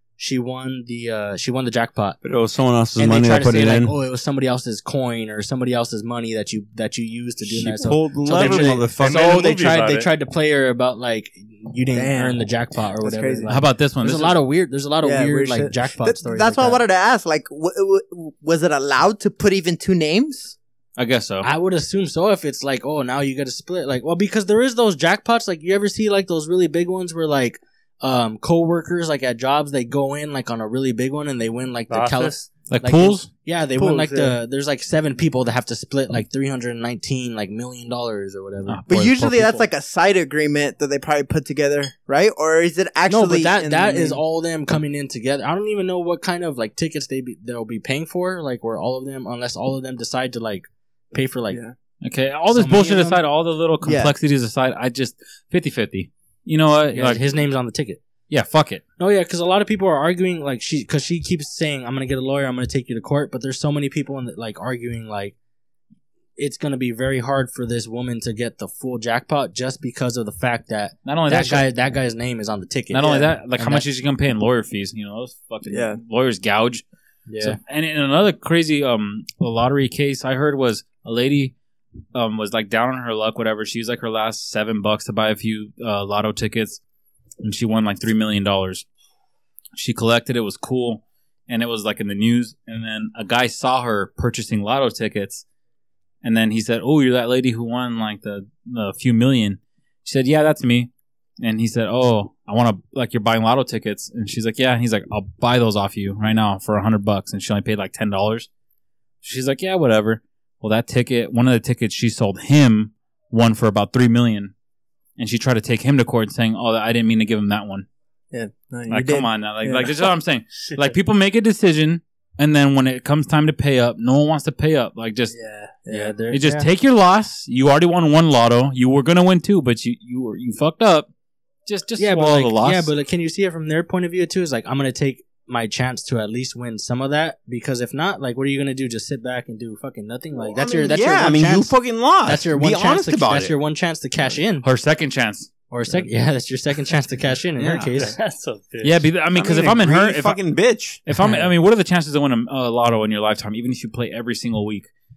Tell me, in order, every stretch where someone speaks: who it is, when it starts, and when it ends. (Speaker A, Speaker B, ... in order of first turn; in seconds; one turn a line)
Speaker A: 0.2-2.2
Speaker B: 2.2-3.9
Speaker A: 3.0-16.8
Speaker B: 7.5-9.4
Speaker C: 8.3-10.1
Speaker D: 11.9-12.4
Speaker D: 13.0-13.5
Speaker E: 13.5-14.4
Speaker D: 15.0-20.5
Speaker E: 21.0-21.5
Speaker A: 21.4-39.6
Speaker C: 31.9-32.5
Speaker E: 32.7-33.3
Speaker D: 33.8-34.4
Speaker E: 38.6-39.6
Speaker D: 38.9-44.2
Speaker A: 43.1-51.6
Speaker E: 52.0-57.2
Speaker A: 52.5-53.2
Speaker D: 53.8-54.1
Speaker A: 56.9-58.0
Speaker E: 58.3-58.8
Speaker A: 59.0-65.3
Speaker A: 66.4-73.8
Speaker E: 71.0-71.7
Speaker E: 72.9-76.8
Speaker D: 73.0-73.3
Speaker D: 75.7-76.0
Speaker A: 77.3-77.6
Speaker E: 77.4-81.5
Speaker E: 82.1-86.8
Speaker E: 87.4-88.8
Speaker E: 89.8-95.4
Speaker E: 96.2-100.9
Speaker E: 101.4-108.5
Speaker E: 109.2-114.5
Speaker E: 115.2-117.8
Speaker D: 118.3-120.0
Speaker E: 118.9-125.3
Speaker C: 120.7-120.9
Speaker D: 125.3-126.1
Speaker A: 125.9-126.7
Speaker E: 126.3-131.1
Speaker E: 131.7-132.9
Speaker A: 132.0-144.7
Speaker B: 140.4-143.5
Speaker E: 144.6-146.0
Speaker A: 145.7-148.2
Speaker B: 147.6-147.9
Speaker C: 148.0-149.1
Speaker E: 148.8-150.4
Speaker B: 149.3-151.0
Speaker E: 151.0-154.9
Speaker A: 151.2-151.5